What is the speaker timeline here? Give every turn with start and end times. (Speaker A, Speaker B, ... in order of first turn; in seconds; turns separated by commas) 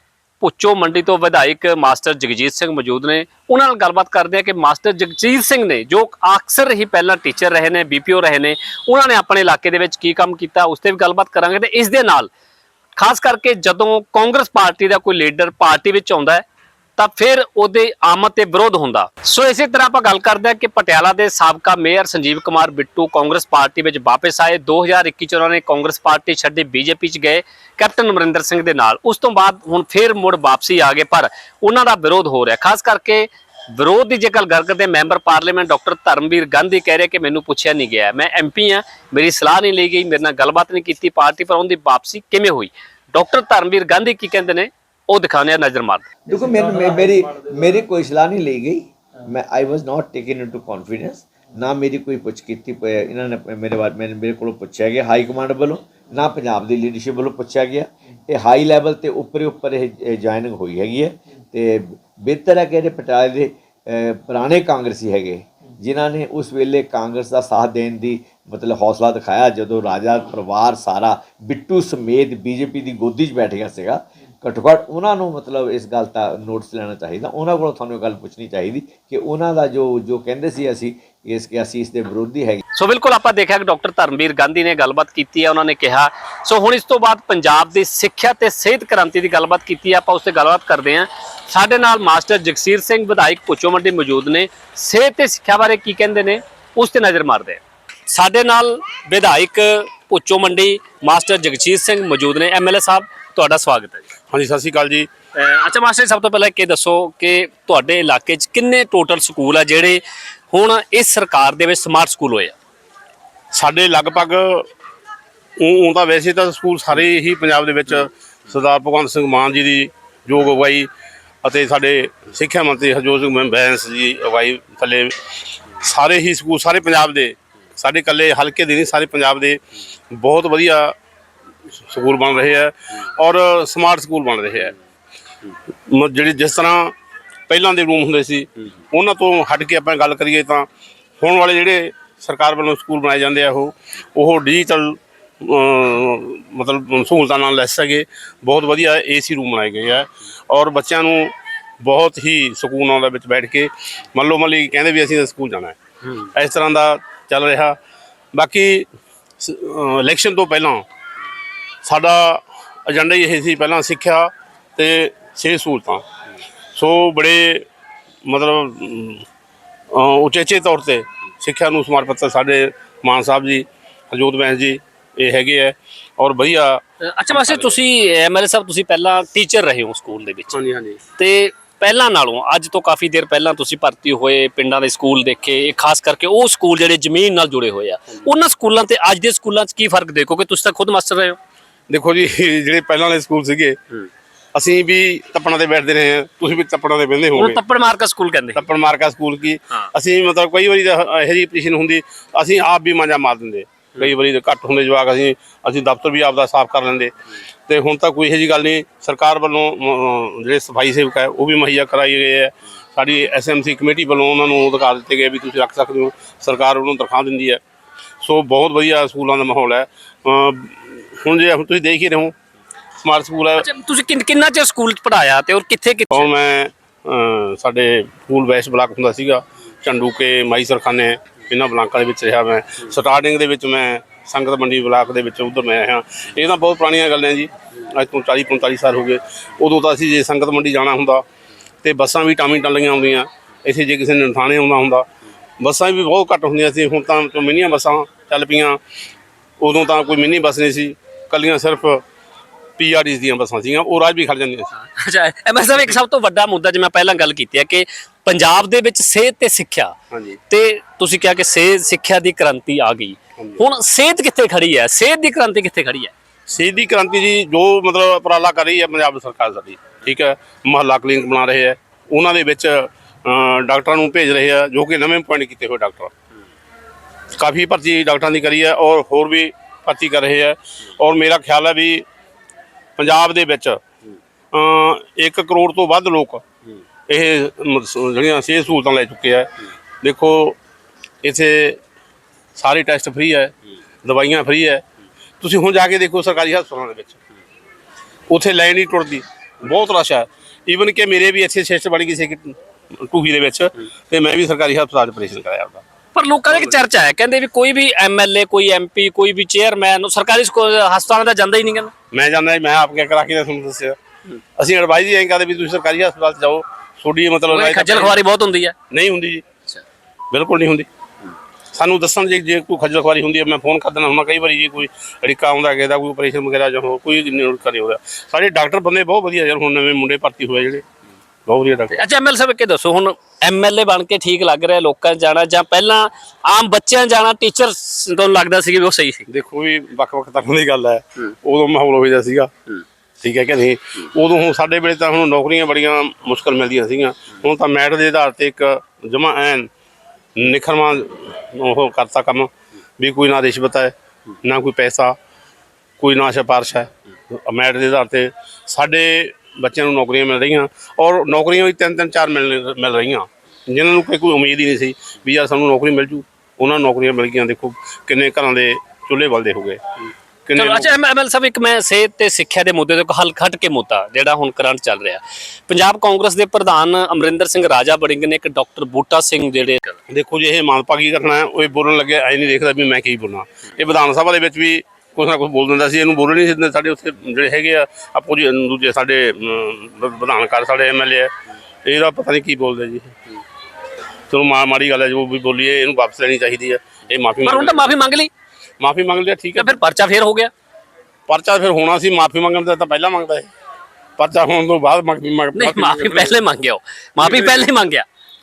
Speaker A: 0.4-12.3, Speaker A: 13.0-16.4, Speaker A: 17.0-46.1, Speaker B: 46.3-82.6, Speaker A: 82.8-104.0, Speaker C: 104.3-105.1, Speaker A: 105.3-112.5, Speaker C: 113.5-114.7, Speaker C: 115.6-120.9, Speaker C: 121.4-129.6, Speaker C: 130.1-130.9, Speaker C: 131.8-134.8, Speaker C: 135.9-136.9, Speaker C: 137.5-140.7, Speaker C: 141.2-155.8, Speaker C: 156.3-157.8, Speaker C: 158.3-158.9, Speaker C: 159.4-160.8, Speaker C: 161.8-166.0, Speaker C: 166.8-167.7, Speaker C: 168.2-169.2, Speaker C: 169.9-177.8, Speaker A: 177.0-180.6, Speaker C: 180.5-181.0, Speaker A: 181.2-191.4, Speaker C: 191.9-193.8, Speaker C: 194.6-197.6, Speaker A: 197.4-198.7, Speaker C: 198.6-207.1, Speaker C: 207.7-217.6, Speaker C: 218.2-222.3, Speaker C: 223.0-223.6, Speaker A: 223.6-226.3, Speaker C: 226.1-241.2, Speaker C: 241.8-245.1, Speaker C: 245.6-248.8, Speaker C: 249.6-252.0, Speaker C: 252.8-254.7, Speaker A: 254.8-259.9, Speaker C: 260.1-260.4, Speaker A: 260.5-266.1, Speaker C: 266.5-276.1, Speaker C: 277.4-282.1, Speaker C: 283.0-283.8, Speaker C: 284.5-286.4, Speaker C: 287.1-290.6, Speaker C: 291.2-291.8, Speaker C: 292.6-294.8, Speaker C: 295.4-297.2, Speaker C: 298.3-305.8, Speaker A: 306.1-311.9, Speaker C: 306.5-306.8, Speaker C: 312.1-314.0, Speaker C: 314.6-318.2, Speaker A: 317.5-318.8, Speaker C: 318.9-319.4, Speaker C: 320.3-320.9, Speaker C: 321.7-330.8, Speaker C: 331.5-331.9, Speaker A: 331.9-339.3, Speaker C: 339.3-342.5, Speaker C: 343.2-349.7, Speaker C: 350.4-355.2, Speaker C: 356.0-369.8, Speaker C: 370.5-370.9, Speaker A: 370.6-380.0, Speaker C: 380.1-391.3, Speaker C: 391.9-393.2, Speaker C: 394.3-397.9, Speaker A: 397.4-398.3, Speaker C: 398.8-399.8, Speaker A: 399.6-400.5, Speaker C: 401.3-403.5, Speaker C: 404.2-406.4, Speaker A: 405.6-408.1, Speaker C: 407.2-407.7